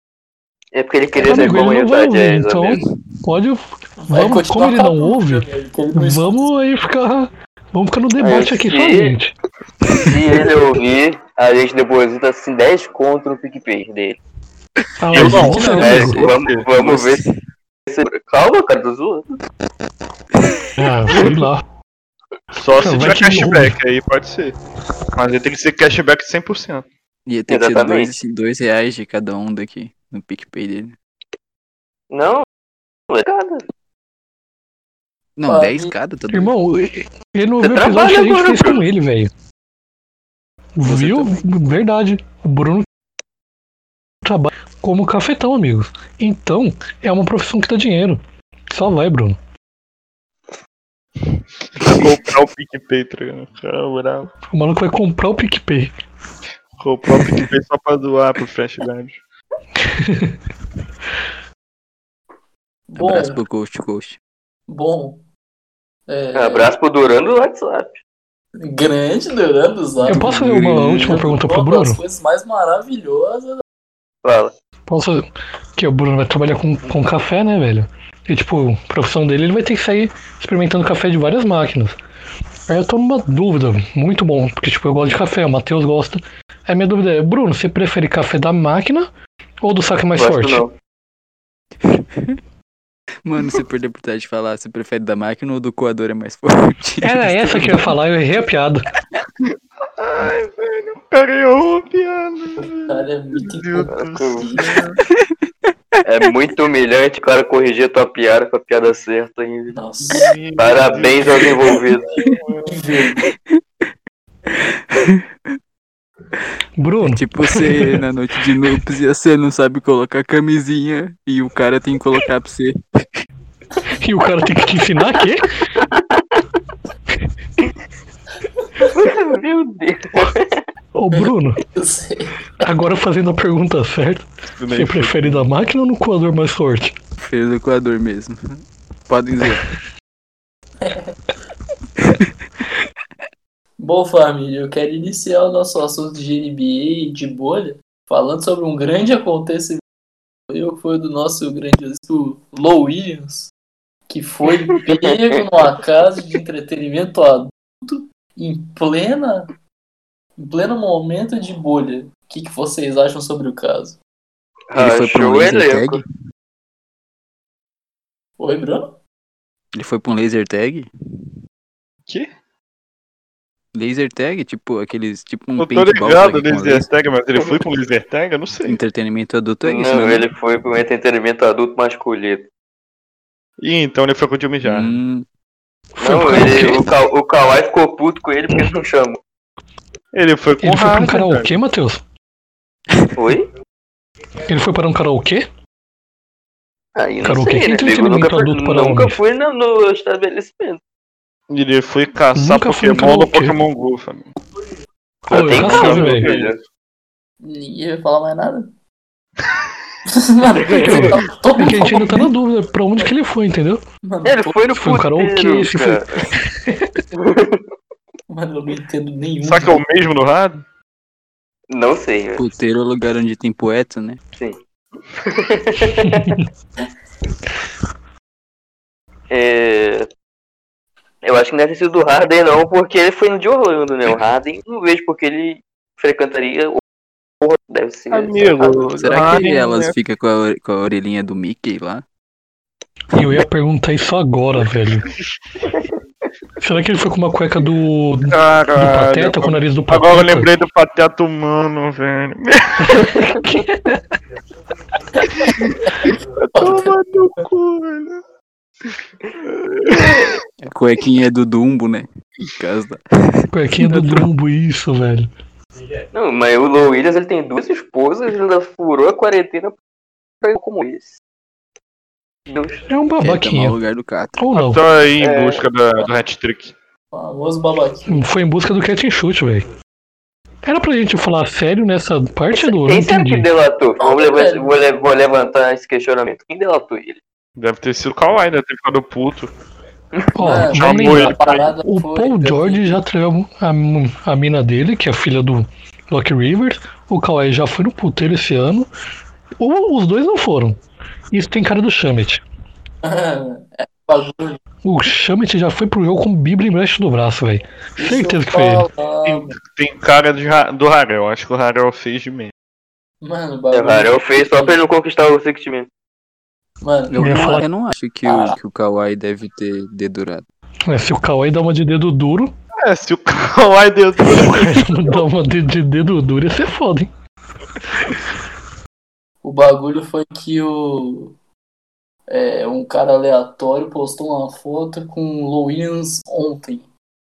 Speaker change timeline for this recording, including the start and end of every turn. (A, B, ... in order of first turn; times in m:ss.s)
0:00.7-0:02.8 A
0:01.2-0:09.3 B
0:04.0-0:06.5 C
0:08.2-0:09.1 A
0:09.9-0:14.2 A
0:15.0-0:16.2 B
0:15.1-0:16.6 D
0:15.2-0:15.9 C
0:15.2-0:17.2 A
0:16.7-0:17.3 E
0:17.9-0:19.4 A
0:20.8-0:21.6 B
0:22.5-0:24.6 D
0:22.7-0:23.8 B
0:25.2-0:26.9 D
0:27.2-0:31.0 E
0:27.5-0:28.1 A
0:32.1-0:32.4 A
0:33.1-0:33.6 A
0:35.4-0:37.0 E
0:35.5-0:35.9 C
0:36.3-0:39.3 B
0:37.6-0:38.8 A
0:40.8-0:42.8 B
0:40.8-0:41.6 E
0:44.2-0:49.4 B
0:51.7-0:54.3 D
0:54.5-0:55.9 B
0:56.8-0:59.2 D
0:57.2-0:57.5 E
0:59.8-1:00.3 B
1:02.9-1:03.4 C
1:03.0-1:04.2 E
1:04.7-1:05.2 C
1:06.1-1:06.7 C
1:06.3-1:08.0 A
1:08.5-1:10.3 C
1:10.0-1:11.2 E
1:10.0-1:12.0 B
1:11.0-1:13.6 C
1:14.2-1:14.5 A
1:14.9-1:15.2 B
1:15.8-1:22.0 B
1:22.7-1:29.1 B
1:29.6-1:30.6 B
1:30.2-1:30.7 A
1:31.8-1:32.4 E
1:33.2-1:37.8 E
1:37.0-1:38.8 B
1:39.4-1:45.0 D
1:42.6-1:44.8 C
1:43.9-1:44.5 A
1:46.0-1:49.8 A
1:49.7-1:50.4 C
1:50.0-1:52.8 D
1:50.6-1:52.1 A
1:52.2-1:53.2 C
1:53.2-1:53.6 E
1:54.5-1:55.3 E
1:56.8-1:58.0 B
1:57.0-2:02.8 E
2:04.0-2:05.5 B
2:08.9-2:10.6 A
2:10.9-2:11.6 B
2:11.1-2:12.4 C
2:12.6-2:16.9 B
2:14.6-2:15.5 D
2:17.2-2:19.7 E
2:20.8-2:21.1 C
2:23.8-2:29.8 C
2:30.5-2:33.5 C
2:34.1-2:39.5 C
2:40.4-2:44.0 C
2:44.7-2:46.0 A
2:44.7-2:46.0 E
2:48.4-2:49.0 C
2:49.7-2:50.9 E
2:53.7-2:56.9 E
2:55.6-2:58.8 D
2:58.6-3:00.3 E
2:59.6-3:02.5 A
3:03.6-3:05.0 D
3:04.6-3:05.2 E
3:05.9-3:06.8 B
3:06.0-3:09.2 A
3:10.1-3:11.5 D
3:10.6-3:12.0 B
3:13.1-3:13.5 A
3:14.4-3:15.5 B
3:17.0-3:20.8 A
3:17.2-3:19.2 B
3:21.5-3:24.3 D
3:22.4-3:23.6 B
3:25.3-3:26.3 B
3:25.3-3:26.5 D
3:25.3-3:26.6 A
3:27.4-3:28.7 C
3:30.1-3:32.3 C
3:30.7-3:31.1 A
3:31.6-3:33.8 B
3:34.0-3:34.6 C
3:34.2-3:36.3 A
3:34.7-3:36.8 B
3:37.1-3:37.6 A
3:38.3-3:39.8 C
3:39.4-3:40.6 D
3:41.7-3:42.4 A
3:42.4-3:44.2 E
3:45.2-3:46.4 A
3:46.0-3:46.4 B
3:49.3-3:50.1 A
3:51.2-3:56.8 A
3:57.4-3:58.8 A
3:58.1-3:59.9 D
3:59.0-4:02.0 E
4:03.1-4:05.1 B
4:06.6-4:10.5 B
4:08.3-4:13.1 D
4:12.8-4:14.0 B
4:15.3-4:18.2 D
4:16.5-4:16.9 C
4:19.4-4:20.4 D
4:20.6-4:23.5 E
4:23.5-4:25.3 B
4:26.1-4:29.8 A
4:30.4-4:31.2 A
4:32.5-4:32.8 A
4:32.9-4:33.8 B
4:33.2-4:34.4 E
4:34.4-4:34.8 B
4:34.5-4:36.7 D
4:35.2-4:35.6 A
4:37.1-4:38.3 C
4:38.1-4:39.7 B
4:40.6-4:43.4 B
4:42.6-4:47.2 A
4:44.0-4:44.8 C
4:47.6-4:49.5 D
4:50.3-4:58.9 B
4:50.4-4:53.0 C
4:50.7-4:51.7 D
4:59.6-5:00.8 B
5:01.3-5:02.4 B
5:03.0-5:04.6 C
5:04.8-5:08.9 B
5:08.0-5:09.6 C
5:09.2-5:12.5 D
5:13.2-5:14.8 C
5:13.7-5:15.9 A
5:16.8-5:17.6 C
5:17.1-5:20.4 E
5:17.2-5:17.6 B
5:18.2-5:18.6 C
5:20.9-5:22.5 B
5:22.8-5:25.2 D
5:24.2-5:27.1 B
5:29.4-5:31.3 C
5:32.3-5:36.9 C